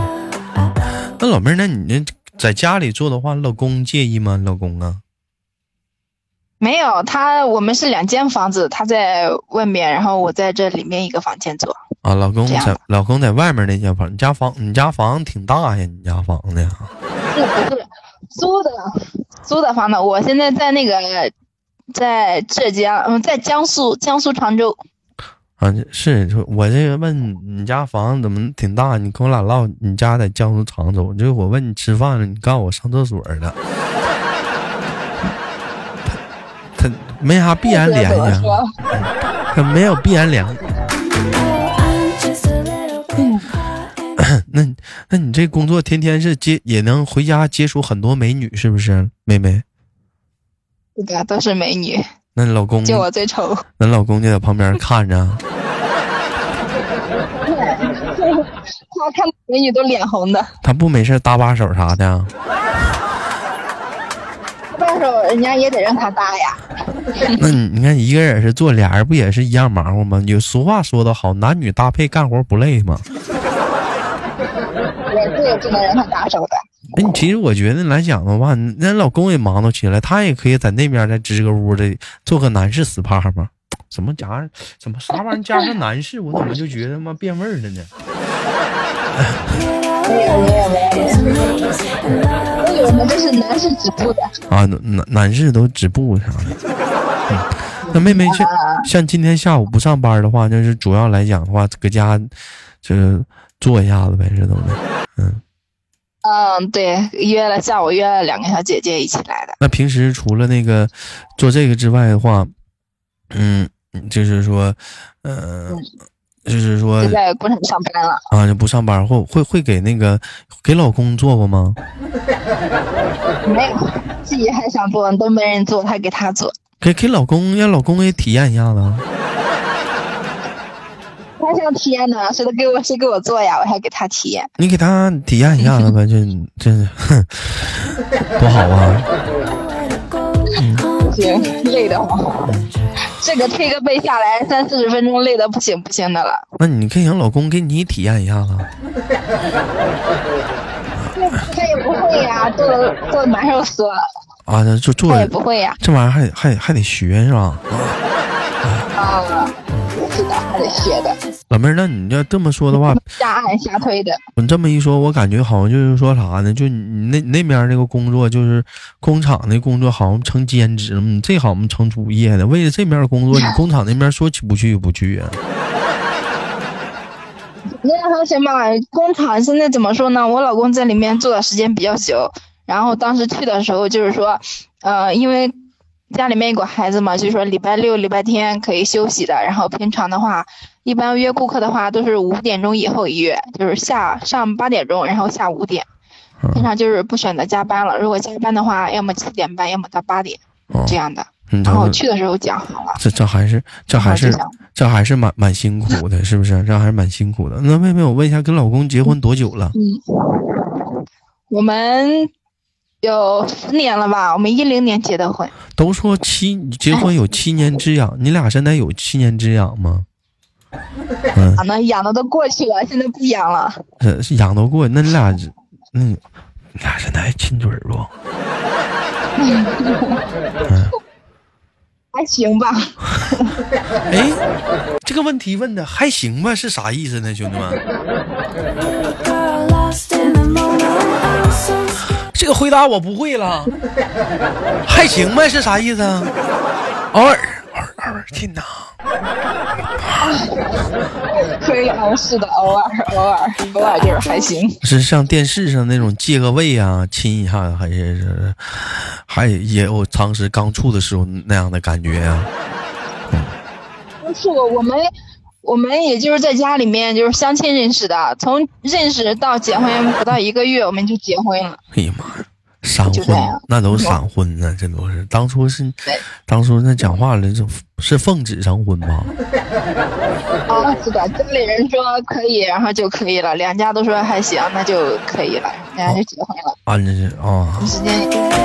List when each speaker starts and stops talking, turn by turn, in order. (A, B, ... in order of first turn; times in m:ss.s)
0:01.2-0:05.0 A
0:06.6-0:11.8 B
0:12.0-0:16.9 A
0:12.5-0:12.8 B
0:17.3-0:18.9 B
0:19.4-0:21.3 B
0:22.0-0:24.8 B
0:25.6-0:33.6 A
0:36.8-0:40.7 A
0:37.7-0:38.7 B
0:43.2-0:43.5 B
0:44.2-0:49.6 A
0:51.0-0:52.0 B
0:52.4-0:53.1 A
0:52.8-0:53.6 B
0:53.8-0:55.4 A
0:57.4-1:00.5 B
1:00.6-1:02.3 A
1:04.7-1:06.6 B
1:07.1-1:07.4 B
1:07.4-1:13.0 A
1:15.1-1:16.6 B
1:17.0-1:27.9 A
1:29.2-1:29.6 A
1:30.1-1:31.4 B
1:32.6-1:34.3 B
1:34.5-1:36.6 A
1:37.3-1:42.3 A
1:37.9-1:38.9 B
1:42.8-1:45.4 A
1:46.2-1:49.6 B
1:49.6-1:52.5 A
1:53.3-1:55.8 A
1:56.5-1:57.2 A
1:57.0-1:58.2 B
1:58.3-2:01.8 A
2:03.4-2:06.5 B
2:06.8-2:09.0 A
2:11.4-2:14.5 B
2:14.6-2:19.1 A
2:20.6-2:20.9 A
2:21.0-2:22.5 B
2:22.5-2:22.8 A
2:23.1-2:26.4 B
2:26.6-2:28.7 A
2:31.1-2:34.0 B
2:34.5-2:38.0 A
2:35.1-2:35.8 B
2:39.0-2:41.2 B
2:41.5-2:43.0 A
2:42.9-2:44.2 B
2:44.4-2:55.4 A
2:57.7-3:05.5 B
3:06.1-3:15.9 B
3:16.4-3:16.7 A
3:16.5-3:23.0 B
3:20.7-3:21.0 A
3:21.5-3:22.0 A
3:23.0-3:29.7 A
3:23.9-3:24.5 B
3:29.8-3:30.9 B
3:31.5-3:32.3 B
3:33.0-3:35.5 B
3:35.8-3:40.1 A
3:41.3-3:41.6 A
3:41.6-3:43.8 B
3:44.0-3:46.2 A
3:46.8-3:48.1 A
3:49.4-3:50.2 B
3:50.7-3:51.0 A
3:52.1-3:53.6 B
3:54.1-3:54.4 A
3:55.0-3:57.8 A
4:02.3-4:03.7 A
4:04.9-4:06.3 A
4:07.1-4:08.9 A
4:10.2-4:14.8 B
4:14.8-4:22.5 A
4:24.2-4:25.1 B
4:25.6-4:31.8 B
4:31.9-4:39.3 A
4:33.1-4:34.2 B
4:40.7-4:46.8 B
4:46.9-4:48.0 A
4:47.8-4:48.4 B